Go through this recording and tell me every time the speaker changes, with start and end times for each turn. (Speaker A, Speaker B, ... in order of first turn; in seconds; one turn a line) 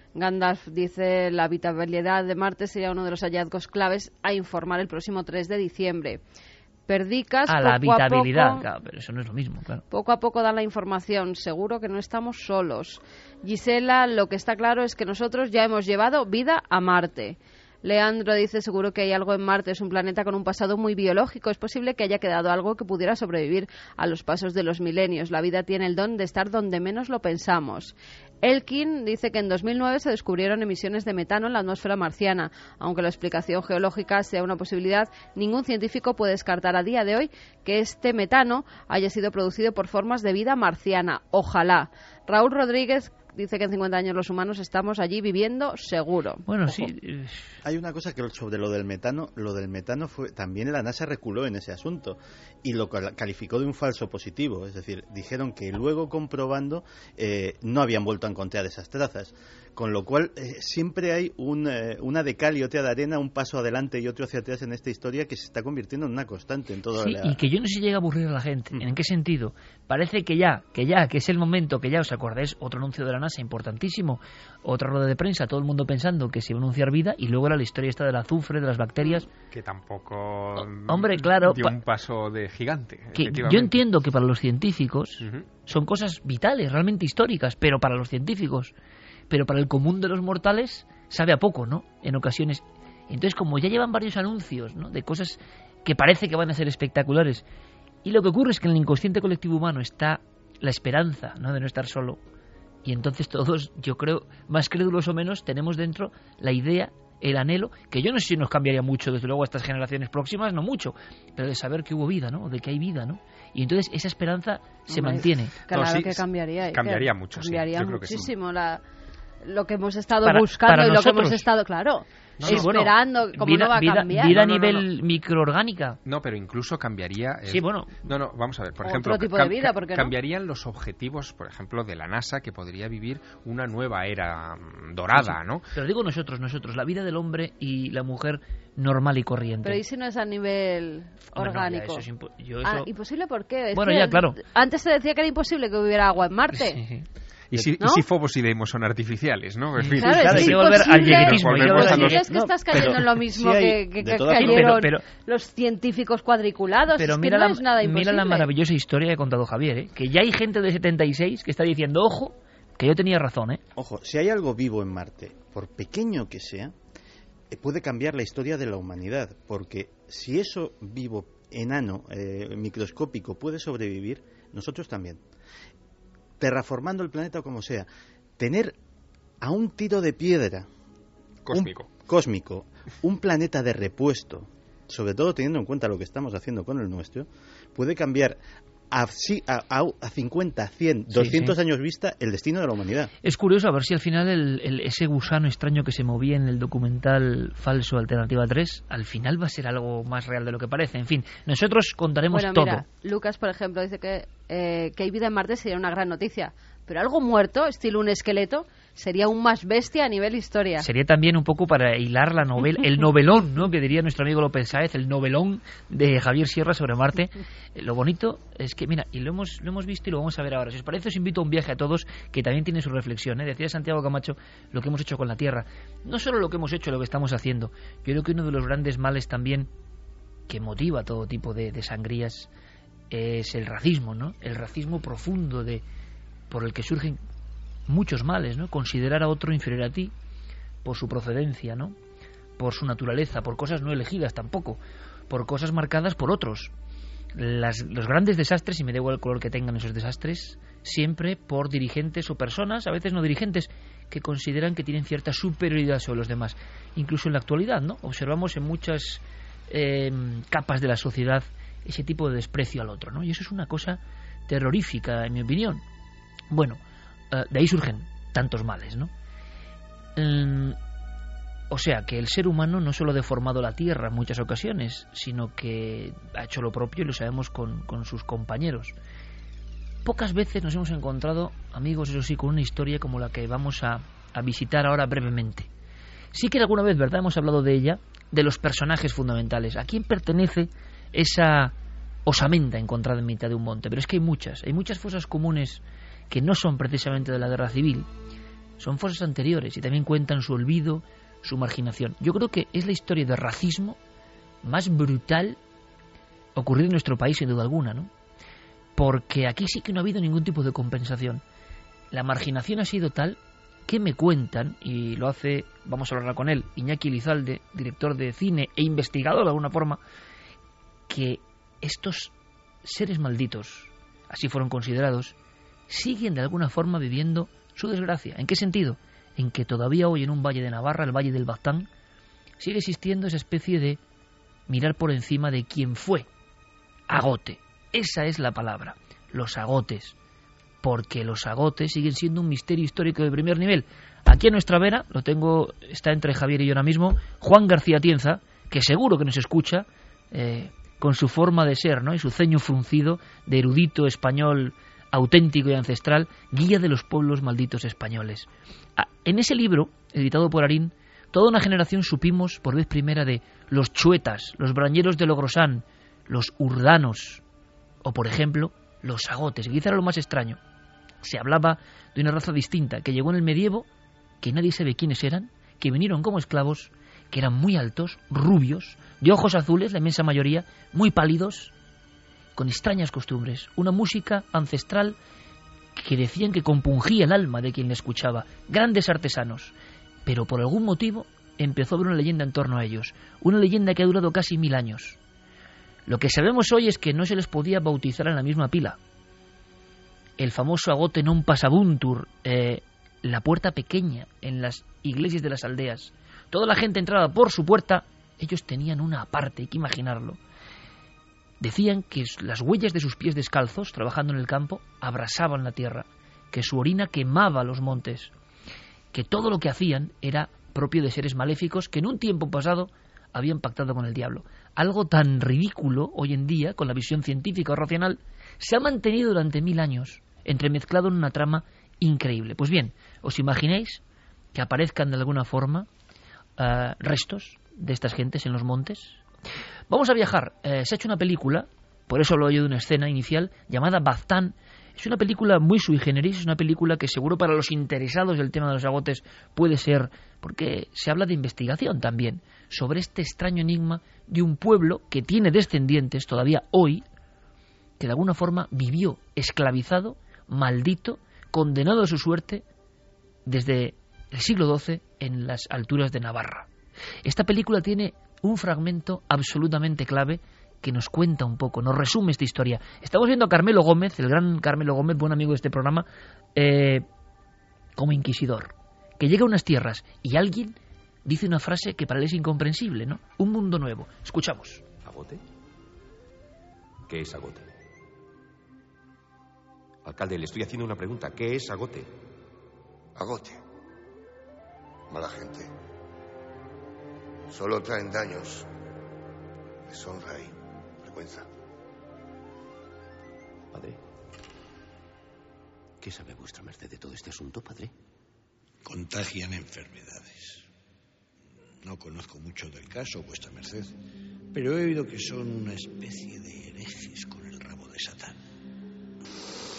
Speaker A: 0.1-6.2
Speaker A: 6.9-8.6
Speaker B: 7.5-9.8
Speaker A: 9.9-46.4
Speaker B: 46.5-47.5
Speaker C: 47.6-67.4
Speaker B: 67.0-79.3
Speaker D: 79.5-83.8
Speaker B: 80.6-81.8
Speaker B: 83.1-88.7
Speaker D: 85.2-85.5
Speaker B: 89.3-97.4
Speaker B: 98.0-102.2
Speaker B: 102.8-115.5
Speaker A: 114.9-118.8
Speaker D: 115.7-118.3
Speaker A: 119.4-124.8
Speaker B: 120.2-121.4
Speaker D: 122.4-122.7
Speaker B: 122.4-126.0
Speaker D: 126.0-135.7
Speaker B: 127.5-128.0
Speaker A: 128.8-130.1
Speaker B: 135.1-139.8
Speaker A: 139.6-142.1
Speaker B: 141.3-142.9
Speaker A: 142.6-146.8
Speaker B: 143.7-144.4
Speaker B: 146.6-147.1
Speaker D: 147.5-152.3
Speaker A: 147.8-148.0
Speaker B: 149.8-153.0
Speaker A: 150.0-158.5
Speaker C: 150.2-150.5
Speaker C: 151.7-154.8
Speaker B: 154.3-155.0
Speaker B: 156.9-163.6
Speaker C: 163.8-166.7
Speaker C: 167.5-175.2
Speaker C: 176.4-177.9
Speaker C: 178.4-178.8
Speaker C: 179.4-180.7
Speaker D: 181.4-181.9
Speaker C: 181.5-188.4
Speaker C: 188.9-193.1
Speaker B: 191.1-191.6
Speaker B: 193.2-202.8
Speaker A: 202.3-210.9
Speaker B: 210.8-229.7
Speaker B: 230.5-232.5
Speaker B: 233.1-235.8
Speaker B: 236.5-237.2
Speaker B: 237.9-240.1
Speaker B: 240.8-241.9
Speaker B: 242.6-246.7
Speaker B: 247.3-265.8
Speaker B: 266.5-266.8
Speaker B: 267.3-269.1
Speaker B: 270.1-270.8
Speaker B: 271.7-278.9
Speaker B: 280.0-285.7
Speaker B: 286.3-291.7
Speaker B: 292.2-298.1
Speaker B: 298.8-304.0
Speaker B: 304.6-305.6
Speaker B: 306.6-308.1
Speaker B: 308.9-311.4
Speaker B: 312.1-320.0
Speaker B: 321.1-322.3
Speaker B: 322.8-325.3
Speaker B: 325.9-331.9
Speaker B: 332.6-334.0
Speaker B: 334.7-336.3
Speaker B: 337.1-340.1
Speaker B: 340.8-367.4
Speaker B: 368.0-370.6
Speaker B: 371.2-373.9
Speaker B: 374.4-381.7
Speaker B: 382.6-385.1
Speaker B: 385.9-389.7
Speaker B: 390.2-395.2
Speaker B: 396.1-399.0
Speaker B: 400.4-410.4
Speaker B: 411.6-418.3
Speaker B: 419.1-434.0
Speaker B: 434.5-435.9
Speaker B: 436.6-439.2
Speaker B: 439.9-457.0
Speaker B: 458.0-462.6
Speaker B: 463.4-466.7
Speaker B: 467.2-477.0
Speaker B: 478.0-484.8
Speaker E: 485.1-485.4
Speaker E: 487.1-487.6
Speaker E: 490.1-492.1
Speaker F: 493.1-493.6
Speaker F: 495.1-495.7
Speaker F: 497.5-498.7
Speaker F: 499.9-501.5
Speaker E: 506.0-507.9
Speaker G: 508.8-510.6
Speaker G: 511.8-513.9
Speaker G: 514.5-518.4